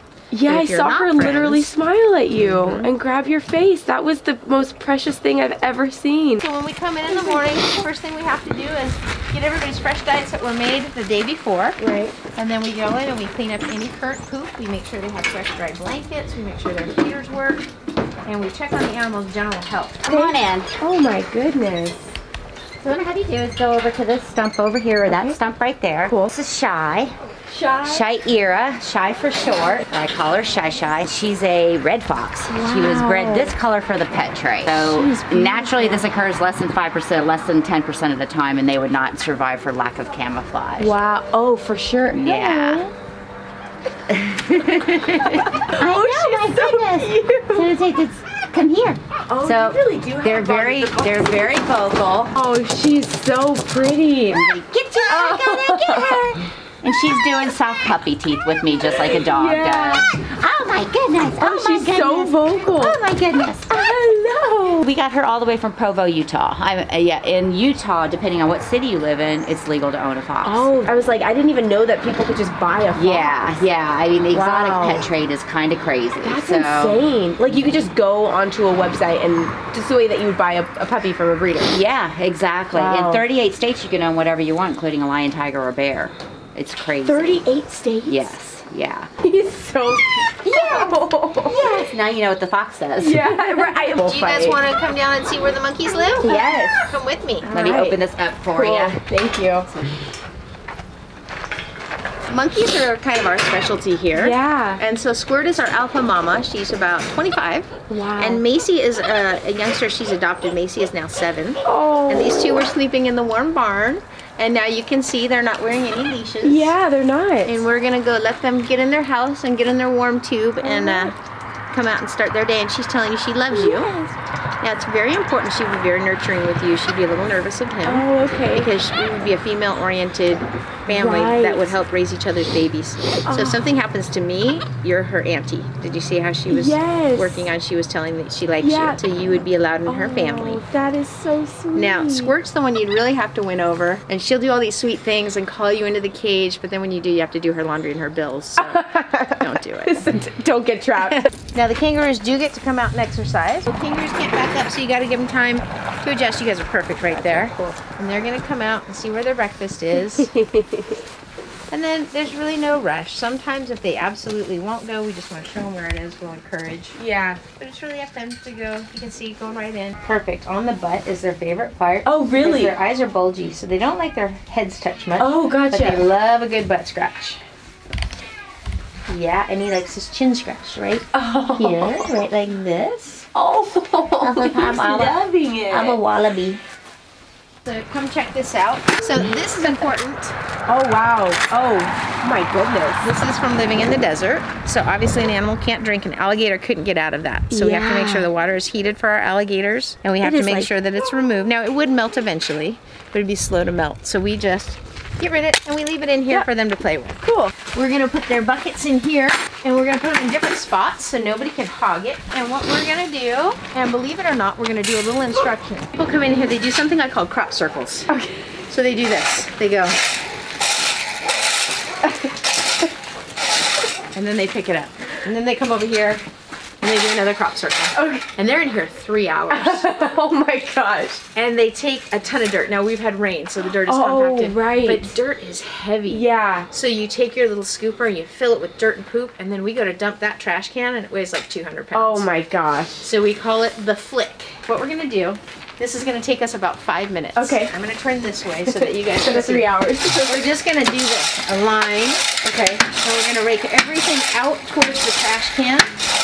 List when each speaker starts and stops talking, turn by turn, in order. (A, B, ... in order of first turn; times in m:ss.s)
0:00.3-0:06.4 A
0:00.5-0:01.7 B
0:02.4-0:02.9 B
0:06.4-0:11.8 B
0:07.1-0:07.8 A
0:11.8-0:12.2 A
0:12.3-0:17.7 B
0:18.2-0:20.1 B
0:20.1-0:20.7 C
0:20.1-0:22.2 A
0:22.8-0:27.2 C
0:25.1-0:25.4 A
0:27.5-0:28.1 A
0:27.8-0:40.9 C
0:32.5-0:33.5 A
0:34.7-0:36.0 A
0:40.8-0:42.9 A
0:42.1-0:42.9 C
0:44.1-0:52.3 C
0:44.8-0:47.7 A
0:49.3-0:51.6 A
0:52.3-0:56.5 A
0:54.3-1:03.7 C
0:58.9-1:00.1 A
1:01.4-1:03.0 A
1:03.7-1:04.9 A
1:04.8-1:10.9 C
1:10.4-1:13.3 A
1:12.9-1:17.0 C
1:14.3-1:15.1 A
1:16.2-1:21.8 A
1:21.7-1:27.4 C
1:22.7-1:23.2 A
1:27.0-1:28.3 A
1:28.0-1:29.1 C
1:29.2-1:31.9 A
1:30.5-1:33.3 C
1:33.0-1:34.6 A
1:33.9-1:37.5 B
1:36.2-1:38.0 A
1:37.5-1:39.0 C
1:38.5-1:39.7 A
1:39.6-1:40.0 C
1:42.3-1:56.7 B
1:44.2-1:44.8 A
1:47.9-1:48.4 A
1:51.6-1:52.6 A
1:56.4-1:57.5 A
1:57.4-2:01.1 B
2:00.6-2:01.1 A
2:01.7-2:03.9 B
2:03.5-2:04.1 A
2:04.6-2:20.6 B
2:07.8-2:08.7 A
2:10.9-2:11.7 A
2:13.3-2:13.6 A
2:16.5-2:17.5 A
2:18.6-2:19.0 A
2:19.8-2:22.3 A
2:21.7-2:30.1 B
2:28.6-2:31.3 A
2:31.5-2:40.3 B
2:37.1-2:37.8 A
2:40.2-2:41.0 A
2:41.7-2:47.0 B
2:47.0-2:47.4 A
2:47.5-2:57.4 B
2:52.0-2:52.7 A
2:55.2-2:56.0 A
2:59.1-3:03.2 B
3:01.1-3:02.1 A
3:03.3-3:06.0 A
3:04.2-3:05.1 C
3:04.5-3:05.0 B
3:05.7-3:06.6 C
3:05.7-3:06.6 B
3:07.6-3:10.4 B
3:10.7-3:13.1 A
3:13.0-3:38.1 B
3:17.5-3:18.3 A
3:20.2-3:20.7 A
3:27.2-3:27.5 A
3:38.1-3:38.3 A
3:38.7-3:40.0 B
3:44.1-3:46.2 B
3:46.8-3:50.0 B
3:47.9-3:48.3 A
3:49.5-3:51.2 A
3:51.3-4:02.3 B
3:53.8-3:55.1 A
3:56.1-3:56.7 A
4:01.9-4:03.0 A
4:03.0-4:09.7 B
4:07.4-4:07.7 A
4:08.7-4:10.5 A
4:10.2-4:15.9 B
4:12.4-4:12.8 A